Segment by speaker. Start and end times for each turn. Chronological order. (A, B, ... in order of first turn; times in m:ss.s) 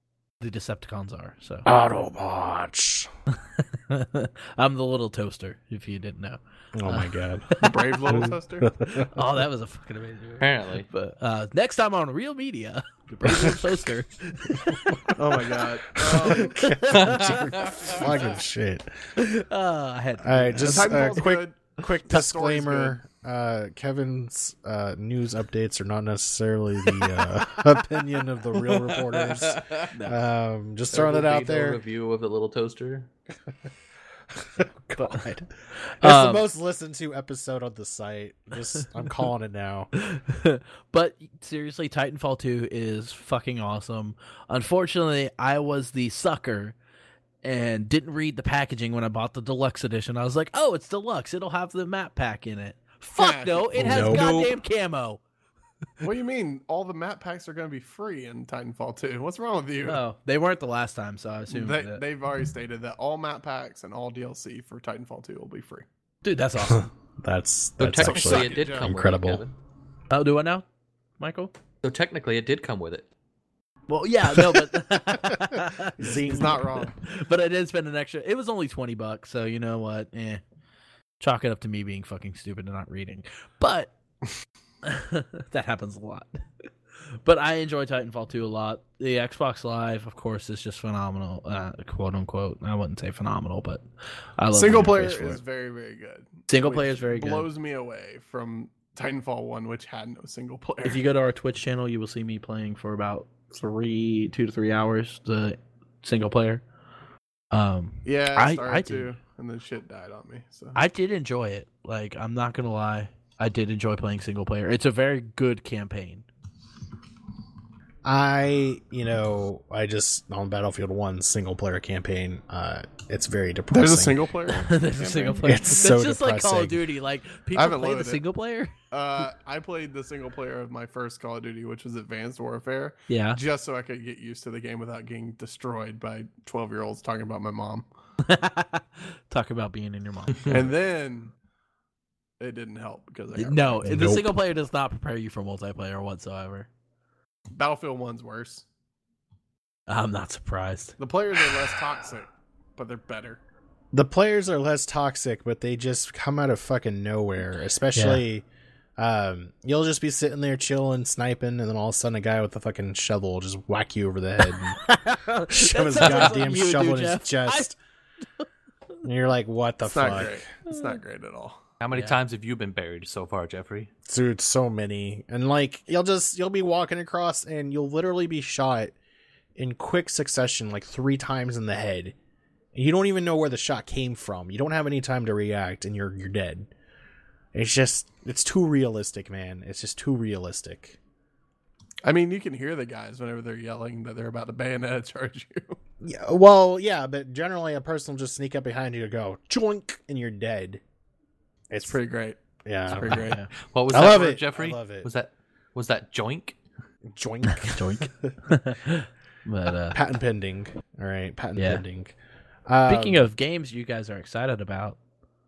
0:00.4-0:01.7 A
0:01.7-0:03.1 B
0:03.4-0:08.3 A
0:06.8-0:07.5 B
0:07.6-0:08.7 C
0:08.1-0:09.3 B
0:08.9-0:15.1 A
0:10.4-0:10.9 D
0:13.2-0:13.7 B
0:14.7-0:19.1 B
0:15.1-0:16.6 C
0:16.2-0:17.7 A
0:16.9-0:18.0 D
0:19.2-0:21.3 A
0:20.2-0:31.8 B
0:20.6-0:23.0 C
0:27.2-0:27.5 A
0:29.1-0:29.9 D
0:30.9-0:33.1 D
0:34.4-0:35.4 B
0:35.0-0:36.4 A
0:36.0-0:39.9 B
0:40.0-0:46.8 A
0:47.4-0:55.2 A
0:53.2-0:54.2 C
0:53.8-0:54.6 B
0:56.0-1:00.0 C
0:59.9-1:02.0 A
1:01.5-1:05.9 C
1:06.2-1:06.9 A
1:06.6-1:09.4 B
1:07.8-1:09.5 D
1:08.0-1:08.9 C
1:10.1-1:10.7 A
1:11.2-1:11.5 A
1:11.8-1:13.1 D
1:13.9-1:20.4 A
1:14.4-1:16.6 B
1:16.2-1:17.0 C
1:21.2-1:23.9 A
1:24.8-1:26.3 A
1:27.2-1:33.8 A
1:34.4-1:35.4 A
1:34.5-1:41.0 C
1:34.7-1:35.4 B
1:36.5-1:37.5 A
1:40.8-1:46.6 A
1:47.5-1:49.1 A
1:48.0-1:50.8 C
1:50.8-1:56.3 A
1:58.0-2:04.2 B
2:03.7-2:05.5 C
2:04.5-2:08.7 A
2:05.4-2:06.8 B
2:07.5-2:08.2 C
2:08.9-2:17.9 C
2:13.1-2:13.4 A
2:18.2-2:20.7 A
2:20.5-2:21.3 C
2:22.4-2:24.0 C
2:23.4-2:26.7 A
2:23.8-2:24.4 B
2:27.5-2:28.6 C
2:29.9-2:31.0 A
2:31.0-2:33.4 C
2:33.9-2:38.4 B
2:38.0-2:38.2 A
2:39.0-2:44.8 B
2:44.5-2:47.7 A
2:45.5-2:47.8 B
2:49.0-2:50.5 B
2:49.8-2:51.6 C
2:50.7-2:51.0 A
2:51.8-2:53.9 D
2:51.9-2:52.2 A
2:54.1-2:59.0 B
2:59.6-3:02.1 B
3:02.7-3:06.7 B
3:07.5-3:11.0 B
3:12.0-3:15.8 C
3:16.0-3:20.8 B
3:21.7-3:22.0 B
3:21.8-3:23.4 C
3:22.6-3:23.4 B
3:23.0-3:23.5 A
3:23.6-3:26.6 D
3:23.9-3:25.1 B
3:27.1-3:28.4 B
3:27.5-3:30.0 A
3:29.9-3:32.1 B
3:31.6-3:31.8 A
3:32.7-3:33.3 B
3:32.9-3:35.0 A